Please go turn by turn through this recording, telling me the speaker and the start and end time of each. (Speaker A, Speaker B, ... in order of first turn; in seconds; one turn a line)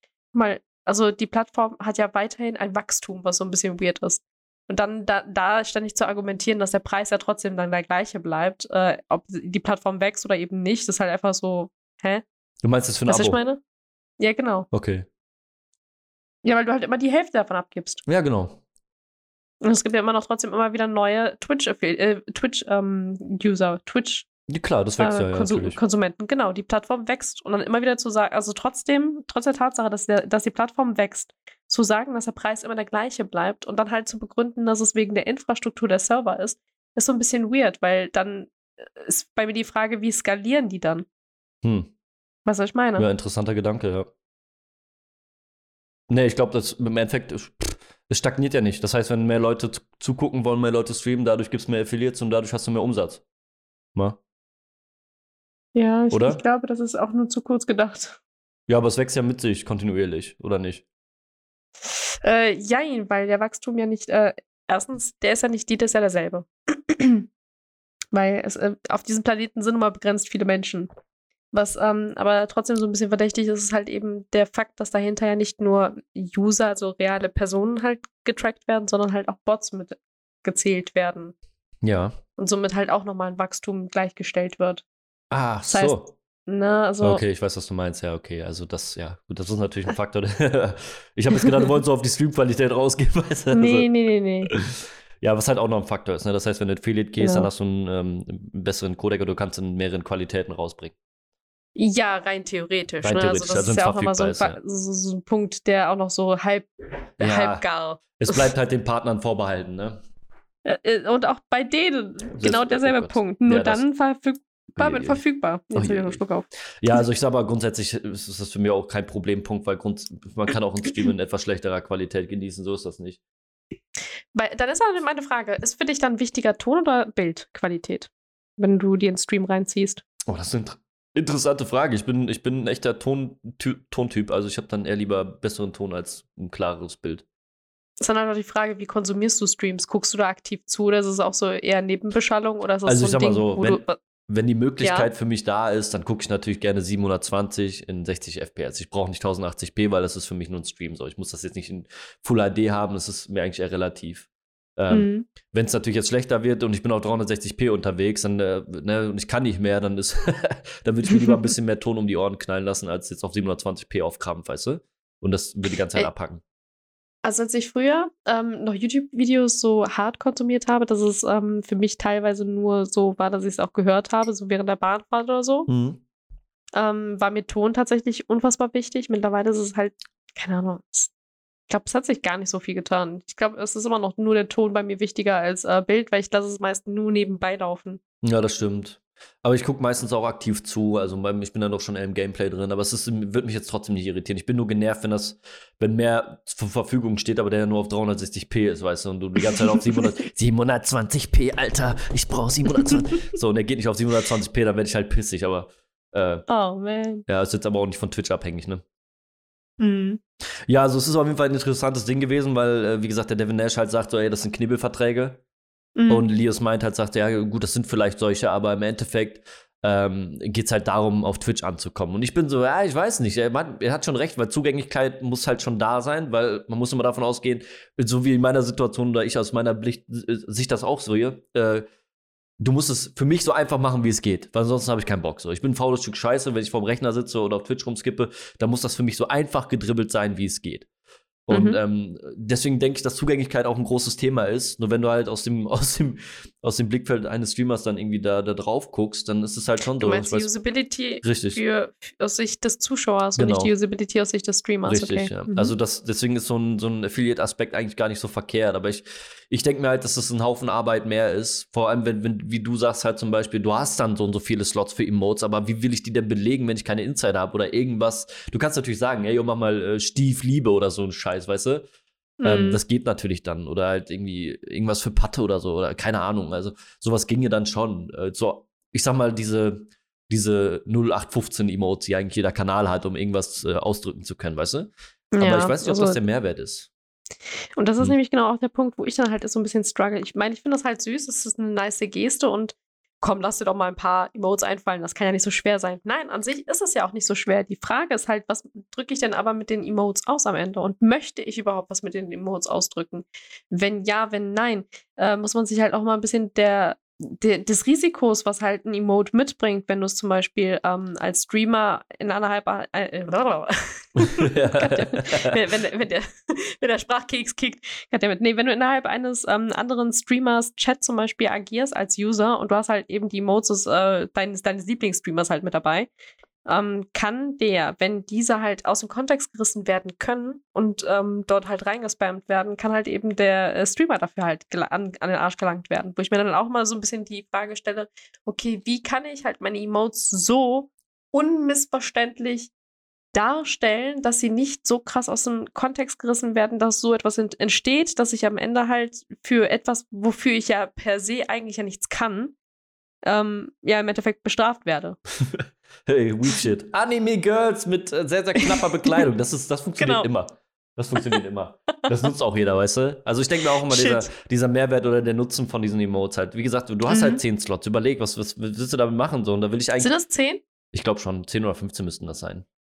Speaker A: 0.3-12.2
Speaker B: 12.6-13.4
Speaker A: 13.1-13.6
Speaker A: 14.2-14.7
Speaker B: 14.7-15.1
Speaker A: 16.4-18.0
Speaker B: 18.1-18.6
Speaker A: 19.6-24.3
Speaker B: 24.5-25.8
Speaker A: 25.0-41.0
Speaker B: 41.6-41.9
Speaker A: 42.5-43.1
Speaker B: 43.0-44.1
Speaker B: 46.1-53.2
Speaker A: 55.7-58.2
Speaker B: 56.1-56.4
Speaker B: 58.7-60.8
Speaker A: 62.2-67.3
Speaker A: 68.1-70.9
Speaker A: 71.5-81.3
Speaker B: 81.8-82.1
Speaker A: 82.4-84.8
Speaker B: 85.3-86.1
Speaker A: 85.7-87.2
Speaker B: 87.0-93.9
Speaker A: 93.5-94.5
Speaker B: 94.5-100.9
Speaker A: 97.2-97.5
Speaker A: 101.7-108.5
Speaker B: 103.0-104.6
Speaker B: 107.2-107.6
Speaker B: 108.2-110.0
Speaker A: 110.6-116.5
Speaker B: 112.3-113.8
Speaker B: 114.8-115.2
Speaker B: 115.7-116.2
Speaker B: 116.8-123.2
Speaker A: 124.3-130.0
Speaker B: 130.3-137.2
Speaker A: 138.0-144.0
Speaker B: 142.8-166.4
Speaker A: 144.8-145.1
Speaker A: 154.9-155.3
Speaker A: 161.1-161.5
Speaker A: 167.2-175.7
Speaker B: 175.7-176.0
Speaker A: 176.7-181.1
Speaker A: 181.7-188.0
Speaker B: 188.2-206.4
Speaker A: 199.5-199.7
Speaker A: 206.5-207.2
Speaker B: 207.2-208.8
Speaker A: 209.8-210.2
Speaker B: 210.7-215.4
Speaker A: 215.9-216.3
Speaker B: 216.1-231.9
Speaker B: 232.6-240.9
Speaker B: 241.5-250.5
Speaker A: 241.5-241.8
Speaker A: 250.0-255.7
Speaker B: 251.2-251.6
Speaker B: 253.4-253.7
Speaker B: 254.8-271.9
Speaker A: 272.4-272.8
Speaker B: 272.4-286.9
Speaker A: 285.3-286.2
Speaker A: 287.8-326.1
Speaker B: 314.2-315.6
Speaker A: 326.6-342.7
Speaker A: 343.3-352.5
Speaker A: 353.2-355.2
Speaker B: 355.4-370.1
Speaker A: 358.6-359.2
Speaker A: 360.0-360.3
Speaker A: 363.9-364.3
Speaker A: 367.1-367.4
Speaker A: 370.0-370.6
Speaker B: 370.9-372.6